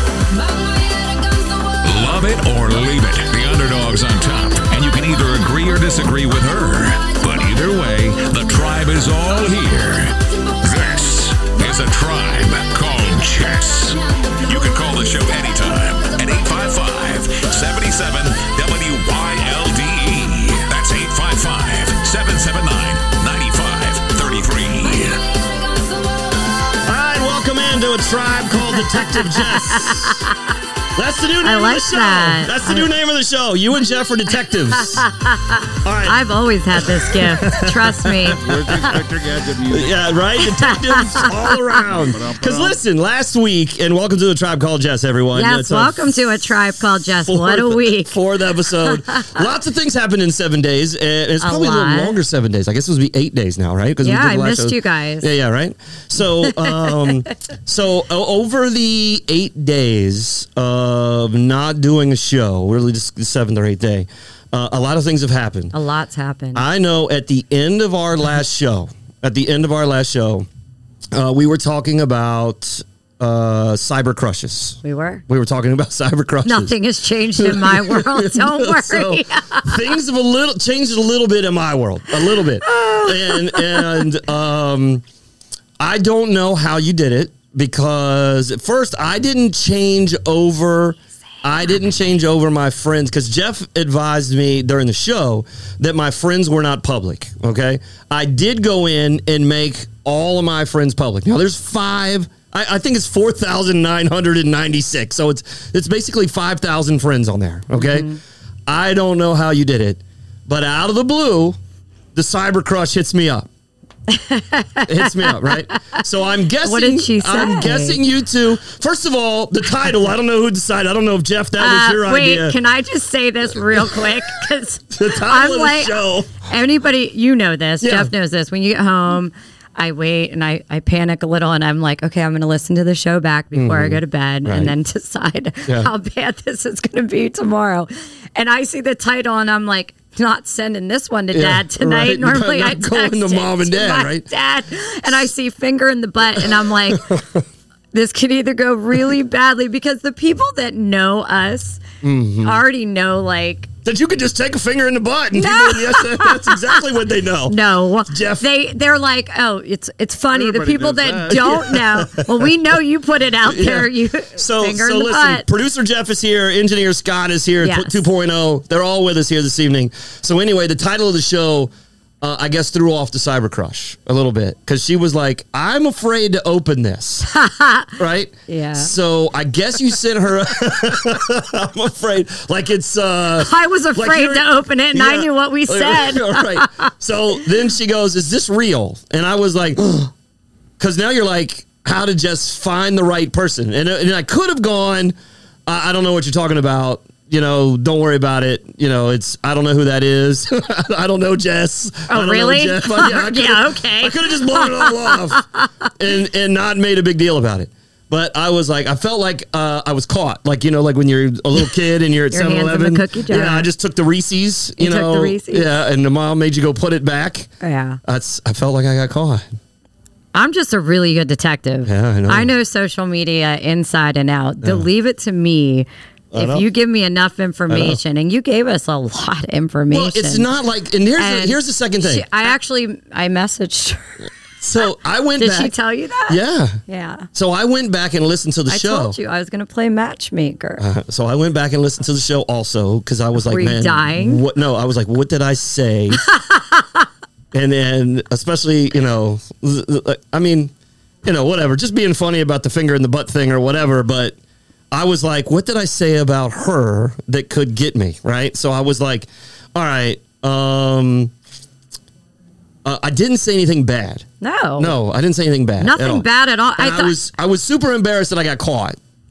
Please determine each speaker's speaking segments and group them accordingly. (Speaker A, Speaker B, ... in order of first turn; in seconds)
Speaker A: 1.8-25.3
Speaker B: 26.8-30.3, 30.9-35.1, 35.8-36.2, 36.7-39.0, 39.7-65.7, 66.5-70.5, 71.1-76.7, 77.4-85.0, 85.8-108.1, 108.7-111.6, 112.1-113.5, 114.8-122.6, 123.7-124.1, 124.9-126.3, 127.8-128.1, 133.5-134.7, 141.3-144.3, 146.3-147.4, 152.0-152.6, 153.8-158.4, 161.3-162.5, 163.4-177.3, 178.0-190.1, 190.8-195.1, 195.7-205.4, 206.0-217.5, 218.0-219.5, 221.8-222.5, 226.3-226.7, 227.7-228.0, 229.9-232.5, 234.6-235.7, 236.3-236.8, 237.3-239.2, 240.8-246.2, 247.5-250.7, 251.2-254.4, 254.9-261.3, 262.8-264.2, 264.8-269.0
Speaker C: 29.4-30.4, 31.4-32.9, 34.9-39.0, 40.4-41.7, 45.3-48.1, 48.9-49.4, 51.4-52.2, 54.0-55.3, 56.5-57.0, 65.7-66.7, 74.8-75.2, 76.4-79.9, 82.6-84.1, 107.8-108.2, 114.1-115.8, 116.6-118.0, 121.6-147.2, 147.9-151.8, 152.4-153.7, 155.3-156.8, 157.5-165.4, 167.6-168.0, 177.3-178.9, 183.4-186.9, 202.1-205.8, 212.3-213.7, 214.8-215.7, 217.6-218.0, 220.3-230.5, 231.2-234.2, 234.8-237.3, 238.7-240.8, 243.4-244.4, 246.2-247.1, 264.4-264.9, 265.8-267.1
Speaker D: 38.4-40.0, 41.9-42.8, 160.3-161.8